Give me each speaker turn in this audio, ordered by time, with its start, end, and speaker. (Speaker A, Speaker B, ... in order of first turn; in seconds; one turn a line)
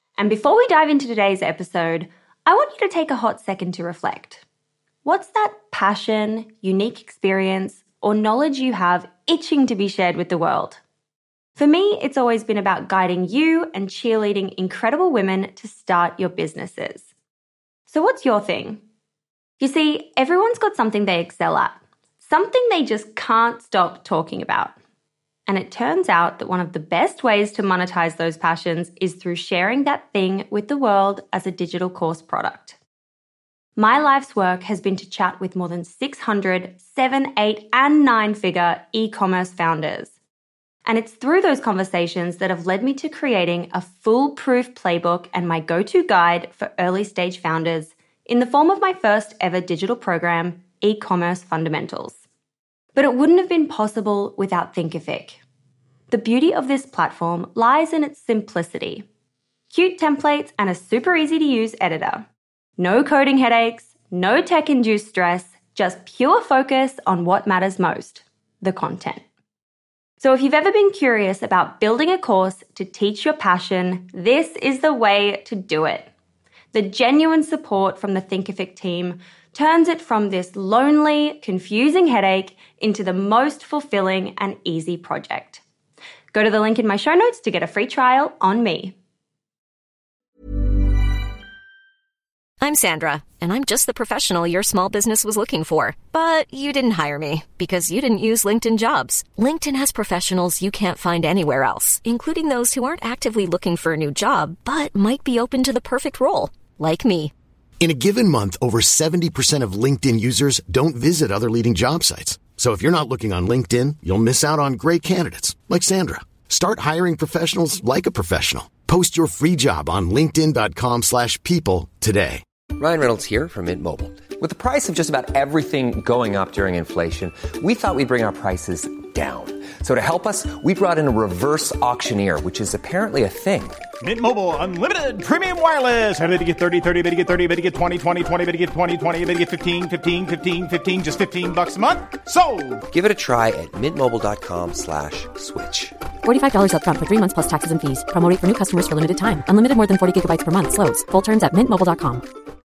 Speaker A: 0.2-4.4
Speaker A: 5.0-10.8
Speaker A: 11.6-17.1
Speaker A: 17.9-18.8
Speaker A: 19.6-24.8
Speaker A: 25.5-32.8
Speaker A: 33.8-40.1
Speaker A: 40.9-52.2
Speaker A: 52.9-55.4
Speaker A: 56.1-59.0
Speaker A: 59.7-62.2
Speaker A: 62.8-69.2
Speaker A: 70.2-76.1
Speaker A: 76.7-85.6
Speaker A: 86.3-88.9
Speaker B: 92.6-107.3
Speaker C: 107.8-122.4
Speaker D: 122.8-133.8
Speaker E: 134.0-142.7
Speaker D: 142.9-145.9
Speaker F: 146.2-152.2